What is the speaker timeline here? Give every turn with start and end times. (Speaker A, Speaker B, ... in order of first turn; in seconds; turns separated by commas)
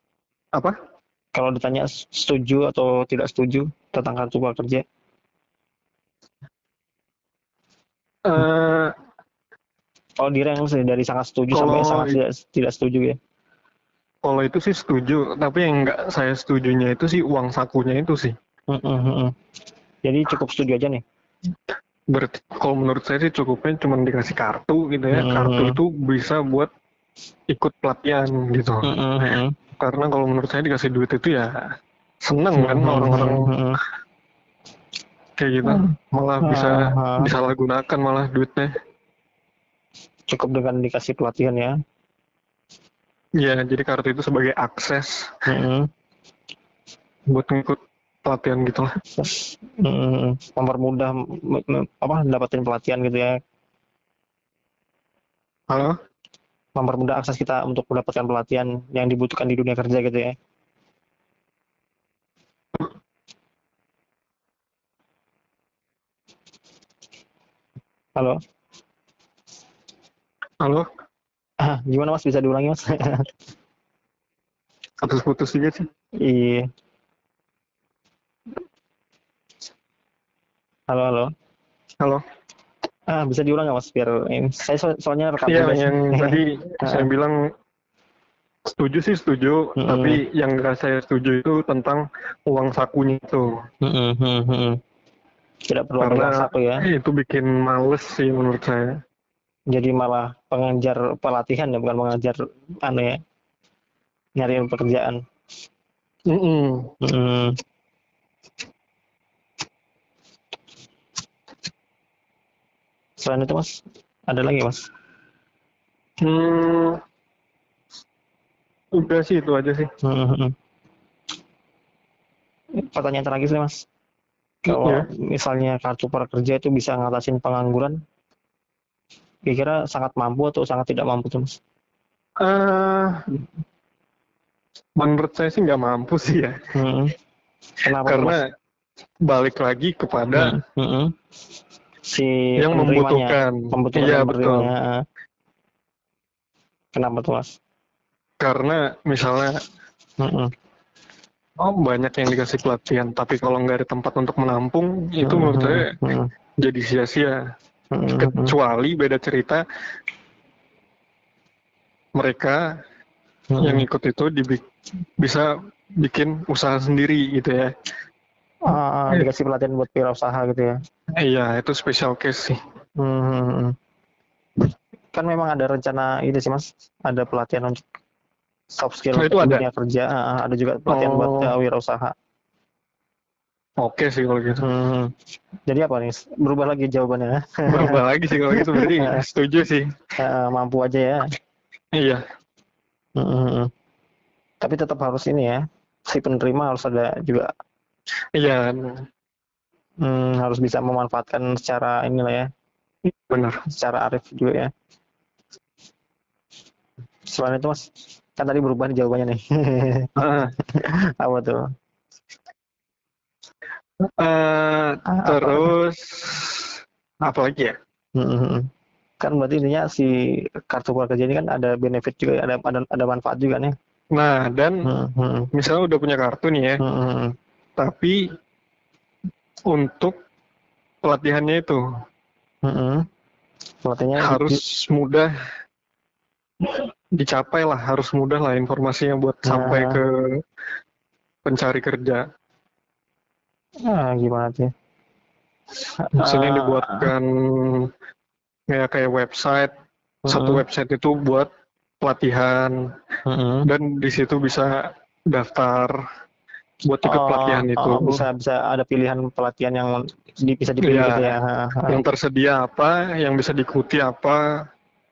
Speaker A: 1.4-4.8, Speaker B: 8.3-8.9, Speaker A: 10.2-13.2, Speaker B: 11.5-12.2, Speaker B: 14.2-18.3, Speaker A: 18.7-19.3, Speaker A: 20.0-21.0, Speaker B: 22.1-26.7, Speaker A: 25.1-25.8, Speaker B: 27.5-28.9, Speaker A: 28.8-29.6, Speaker B: 29.8-31.7, Speaker B: 32.2-33.5, Speaker A: 32.6-33.8, Speaker B: 35.4-38.7, Speaker A: 35.6-37.3, Speaker A: 40.3-41.7, Speaker B: 43.4-45.3, Speaker A: 45.5-45.9, Speaker B: 47.3-48.9, Speaker A: 49.2-53.3, Speaker B: 55.7-56.0, Speaker A: 56.8-60.4, Speaker B: 70.6-70.9, Speaker A: 71.6-73.3, Speaker B: 75.0-75.8, Speaker A: 76.2-76.7, Speaker A: 80.9-81.3, Speaker A: 83.1-87.1, Speaker B: 85.5-87.4, Speaker B: 88.7-93.5, Speaker A: 89.8-90.2, Speaker A: 93.8-94.8, Speaker A: 95.7-96.8, Speaker B: 96.0-99.0, Speaker A: 99.7-103.2, Speaker A: 104.4-105.2, Speaker B: 106.3-106.9, Speaker A: 107.0-107.6, Speaker A: 113.2-114.8, Speaker B: 116.2-117.0, Speaker B: 118.9-119.9, Speaker A: 120.0-120.5, Speaker A: 122.8-123.8, Speaker B: 124.7-125.1, Speaker A: 124.7-128.0, Speaker A: 129.5-131.5, Speaker B: 132.4-133.4, Speaker B: 135.0-136.6, Speaker A: 136.8-137.1, Speaker A: 137.8-138.4, Speaker B: 138.0-138.4, Speaker B: 139.3-140.6, Speaker A: 140.3-141.1, Speaker A: 142.1-145.0, Speaker B: 142.6-144.7, Speaker A: 146.9-147.5, Speaker B: 148.4-149.5, Speaker A: 150.2-150.5, Speaker B: 151.6-156.0, Speaker A: 155.2-156.3, Speaker B: 156.6-157.4, Speaker A: 157.9-158.6, Speaker B: 158.2-159.6, Speaker B: 162.2-162.6, Speaker A: 163.5-163.8, Speaker B: 163.6-164.6, Speaker B: 165.2-167.7, Speaker A: 168.7-170.8, Speaker B: 171.2-172.6, Speaker A: 173.0-173.8, Speaker A: 175.1-177.8, Speaker A: 178.7-182.2, Speaker B: 179.2-179.7, Speaker B: 180.9-181.6, Speaker B: 183.8-184.7, Speaker A: 184.6-185.1, Speaker A: 185.7-189.2, Speaker B: 187.7-189.9, Speaker A: 190.2-191.2, Speaker B: 191.9-192.2, Speaker A: 193.2-193.7, Speaker A: 194.6-197.5, Speaker B: 198.4-199.0, Speaker A: 200.0-202.5, Speaker B: 203.3-203.6, Speaker A: 203.7-204.7, Speaker A: 207.3-210.1, Speaker B: 210.2-210.5, Speaker A: 210.7-211.6, Speaker B: 214.2-217.8, Speaker A: 215.1-215.7, Speaker A: 218.2-223.8, Speaker B: 224.1-224.9, Speaker A: 224.8-225.5, Speaker B: 225.5-226.8, Speaker A: 226.8-227.4, Speaker B: 227.8-228.2, Speaker B: 229.7-230.2, Speaker B: 231.0-231.8, Speaker A: 232.6-233.1, Speaker A: 233.8-234.6, Speaker B: 234.2-235.3, Speaker B: 236.7-240.2, Speaker A: 239.4-240.0, Speaker B: 241.4-242.2, Speaker A: 243.8-244.7, Speaker A: 246.0-247.1, Speaker B: 246.2-247.9, Speaker B: 248.7-249.7, Speaker B: 250.3-251.5, Speaker A: 250.3-250.6, Speaker B: 252.0-252.8, Speaker A: 253.3-253.7, Speaker B: 253.7-256.0, Speaker B: 256.9-258.3, Speaker A: 257.1-262.0, Speaker B: 260.8-261.4, Speaker B: 261.9-264.4